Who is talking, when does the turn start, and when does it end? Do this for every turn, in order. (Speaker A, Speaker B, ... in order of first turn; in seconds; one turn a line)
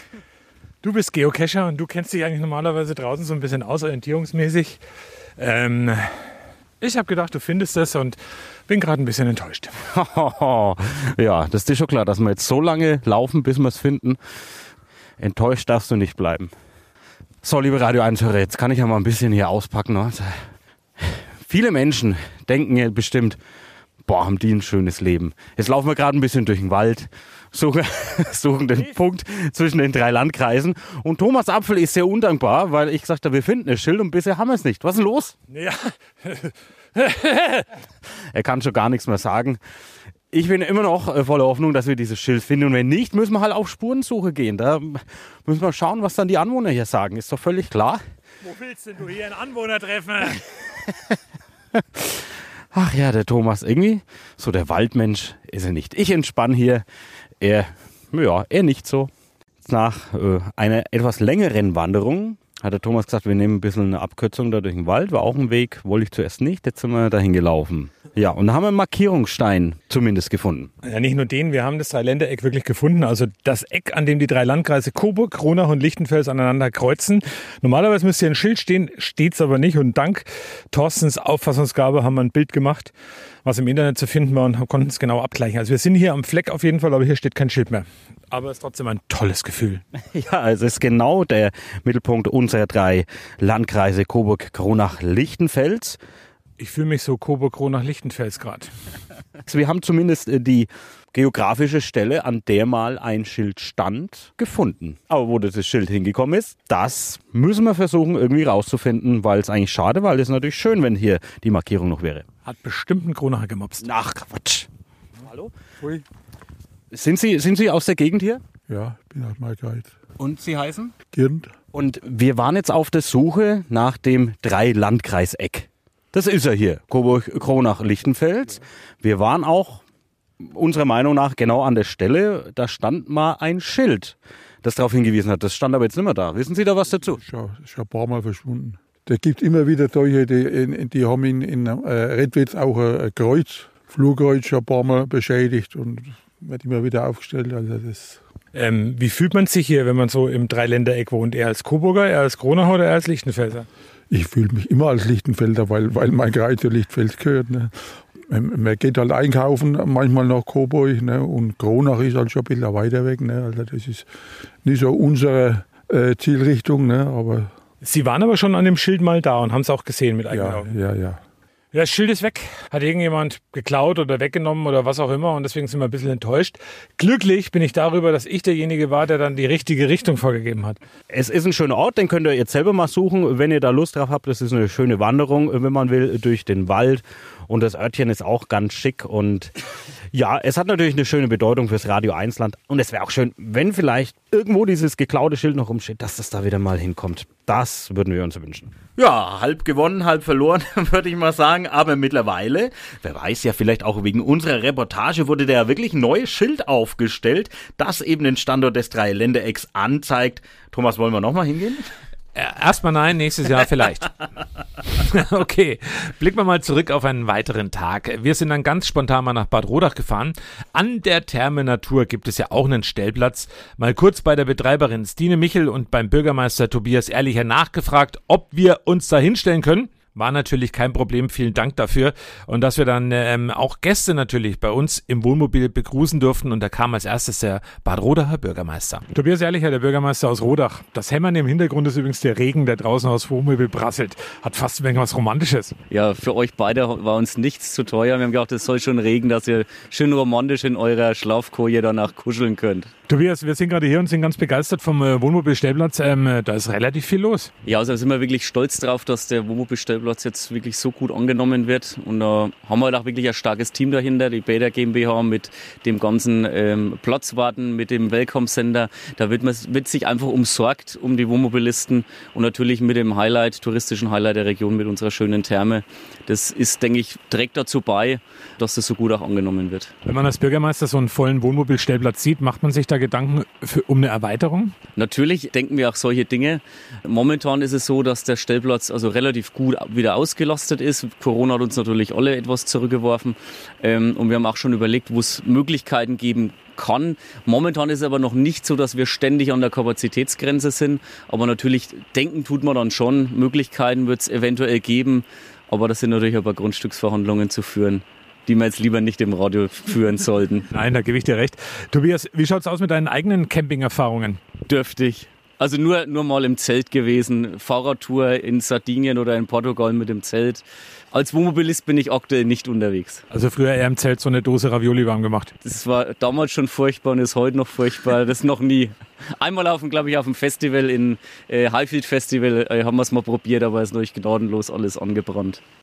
Speaker A: 0.8-4.8
Speaker A: 5.4-6.1
Speaker A: 6.8-9.8
Speaker B: 9.9-14.2
Speaker B: 15.2-16.5
Speaker B: 17.4-20.4
Speaker B: 21.0-23.4
Speaker B: 24.1-35.3
Speaker A: 35.5-37.7
Speaker B: 38.3-39.6
Speaker B: 40.3-48.0
Speaker A: 48.4-50.4
Speaker B: 52.7-56.8
Speaker B: 57.4-59.1
Speaker B: 59.6-70.7
Speaker A: 70.8-82.9
Speaker A: 83.4-89.8
Speaker B: 90.1-96.0
Speaker A: 96.6-98.7
Speaker B: 99.5-112.2
Speaker A: 112.5-113.8
Speaker B: 114.0-114.7
Speaker B: 116.9-118.4
Speaker C: 118.7-119.9
Speaker D: 120.2-120.9
Speaker C: 121.1-121.5
Speaker B: 121.7-129.8
Speaker B: 130.4-137.2
Speaker C: 136.9-148.2
Speaker A: 148.5-153.7
Speaker C: 154.1-164.1
Speaker C: 164.6-167.5
Speaker A: 167.8-170.7
Speaker C: 170.3-171.2
Speaker A: 171.7-180.8
Speaker B: 181.1-189.5
Speaker B: 190.1-198.7
Speaker D: 198.9-211.8
Speaker A: 212.3-214.1
Speaker A: 215.0-245.7
Speaker E: 245.9-252.9
Speaker A: 253.1-257.5
Speaker E: 257.6-279.9
Speaker A: 280.1-284.7
Speaker E: 284.9-310.7
Speaker A: 310.7-314.4
Speaker E: 314.6-323.2
Speaker A: 323.3-325.5
Speaker E: 325.6-335.6